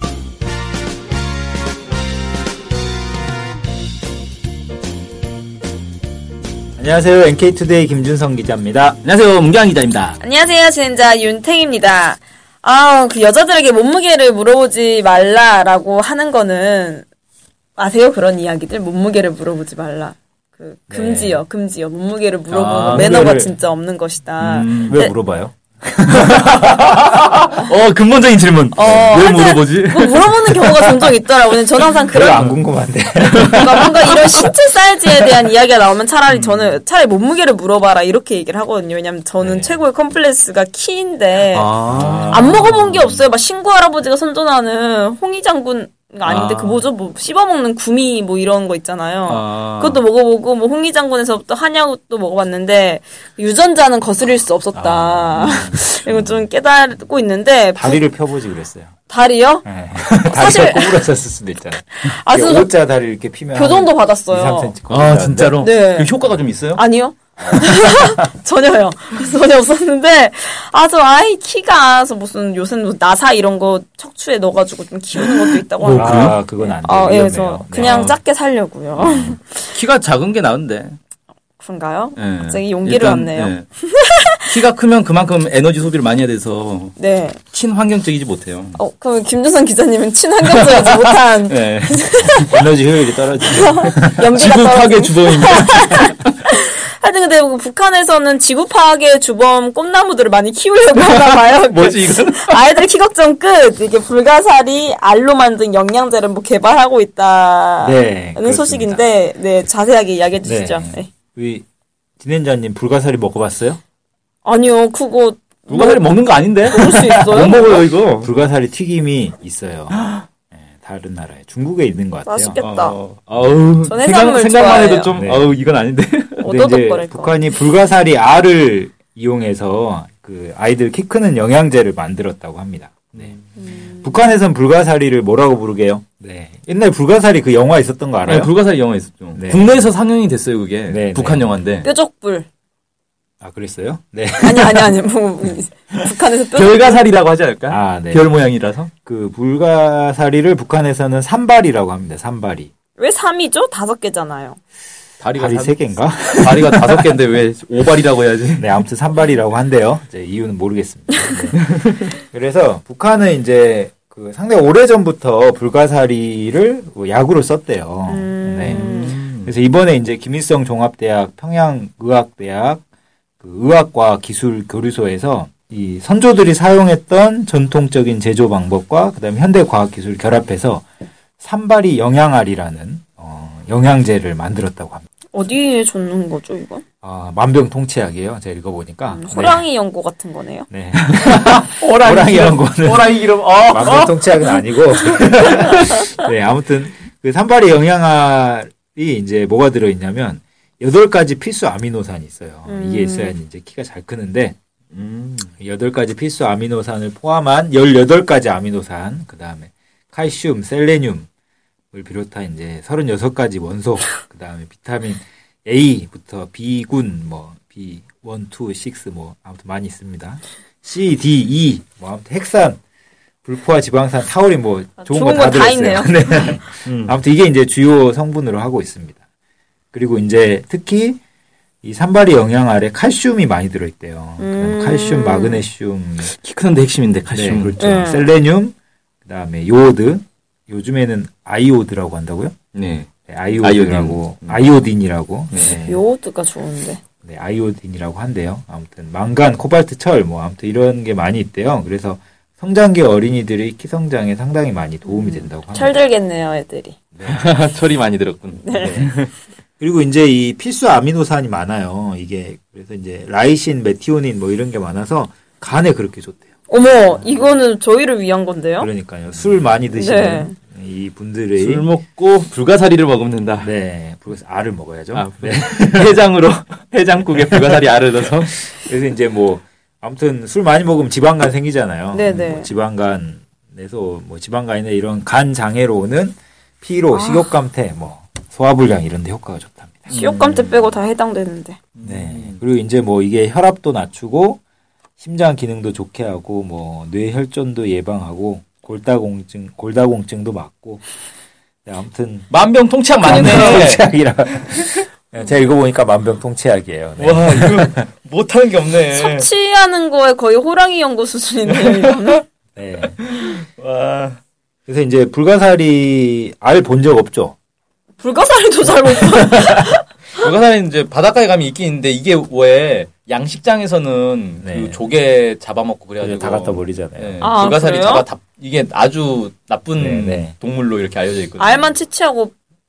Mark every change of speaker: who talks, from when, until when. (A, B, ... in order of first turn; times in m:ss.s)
0:06.8-0:09.0 A
0:09.0-0:10.2 B
0:10.2-0:17.0 C
0:17.8-0:25.1 C
0:20.9-0:21.4 A
0:22.5-0:23.4 B
0:22.6-0:23.5 A
0:24.4-0:25.0 B
0:24.8-0:26.6 A
0:26.1-0:31.0 B
0:28.7-0:32.5 C
0:32.1-0:34.3 A
0:33.2-0:41.7 C
0:33.3-0:34.2 B
0:35.2-0:35.5 A
0:36.3-0:36.8 B
0:39.4-0:39.8 A
0:41.5-0:43.2 B
0:41.9-0:42.5 A
0:42.3-0:58.0 C
0:46.2-0:46.8 B
0:49.2-0:50.0 B
0:54.7-0:56.4 A
0:57.8-0:58.9 A
0:59.1-0:59.6 C
0:59.6-1:05.6 A
1:00.2-1:01.1 C
1:02.0-1:02.7 C
1:03.5-1:04.8 C
1:04.9-1:06.8 B
1:05.6-1:06.1 C
1:06.7-1:19.8 C
1:07.4-1:08.3 A
1:15.8-1:16.4 B
1:15.9-1:18.0 A
1:17.8-1:18.2 B
1:18.9-1:19.4 A
1:19.7-1:21.0 B
1:21.6-1:24.6 C
1:22.2-1:23.7 B
1:24.4-1:26.9 B
1:27.0-1:27.4 C
1:27.5-1:28.8 B
1:28.8-1:32.6 C
1:30.4-1:32.5 B
1:32.2-1:34.3 A
1:33.4-1:51.1 C
1:34.3-1:36.4 B
1:40.9-1:42.6 B
1:47.8-1:49.0 A
1:50.4-1:51.6 A
1:52.2-1:53.8 A
1:54.4-1:57.7 C
1:55.7-1:58.3 B
1:57.3-2:02.6 A
2:02.2-2:03.0 C
2:02.6-2:06.5 B
2:03.8-2:05.1 C
2:05.1-2:05.5 A
2:06.4-2:07.4 C
2:06.4-2:18.5 A
2:13.6-2:14.1 C
2:18.2-2:21.9 B
2:19.3-2:19.9 A
2:20.8-2:21.6 A
2:21.8-2:22.5 C
2:23.4-2:25.0 A
2:24.4-2:27.0 C
2:25.9-2:28.9 B
2:27.7-2:28.3 A
2:29.0-2:32.7 A
2:33.0-2:34.6 C
2:35.2-2:38.6 B
2:35.3-2:37.2 A
2:38.6-2:52.8 A
2:41.6-2:42.0 B
2:48.1-2:49.2 C
2:48.6-2:49.5 B
2:53.4-3:00.9 A
3:01.4-3:05.0 A
3:05.3-3:06.8 C
3:07.0-3:09.7 A
3:09.1-3:10.7 C
3:10.7-3:24.6 A
3:10.9-3:14.5 B
3:15.1-3:16.0 B
3:22.7-3:23.3 C
3:24.9-3:25.5 B
3:25.6-3:31.3 A
3:31.9-3:42.8 A
3:43.4-3:49.2 A
3:45.0-3:46.6 C
3:46.8-3:47.1 B
3:49.9-3:51.2 A
3:51.8-3:56.3 A
3:54.4-3:55.6 C
3:56.2-3:57.8 B
3:57.3-4:02.6 A
3:57.8-3:58.3 C
4:02.7-4:04.6 B
4:03.2-4:06.0 A
4:05.8-4:07.0 C
4:07.2-4:16.0 A
4:15.0-4:17.0 C
4:17.1-4:17.5 A
4:17.2-4:19.3 B
4:18.6-4:19.1 C
4:18.7-4:19.1 A
4:19.8-4:27.6 A
4:26.7-4:28.9 C
4:28.8-4:31.9 A
4:29.9-4:30.6 C
4:31.5-4:33.7 B
4:33.6-4:36.2 A
4:35.1-4:38.7 B
4:37.4-4:37.8 A
4:38.6-4:50.2 A
4:42.1-4:42.7 C
4:47.1-4:47.5 C
4:50.1-4:51.8 C
4:50.1-4:50.7 B
4:52.0-4:52.6 B
4:52.0-4:54.6 A
4:55.2-5:01.0 A
5:01.8-5:02.5 A
5:02.5-5:04.1 B
5:03.2-5:08.0 A
5:03.2-5:03.9 C
5:07.2-5:09.5 B
5:09.1-5:12.4 C
5:11.7-5:12.3 B
5:12.8-5:13.2 A
5:13.2-5:14.4 B
5:14.9-5:17.5 A
5:18.2-5:20.0 C
5:20.3-5:31.9 B
5:24.6-5:25.0 A
5:26.2-5:27.5 A
5:27.4-5:28.3 C
5:29.9-5:30.5 A
5:31.6-5:32.5 C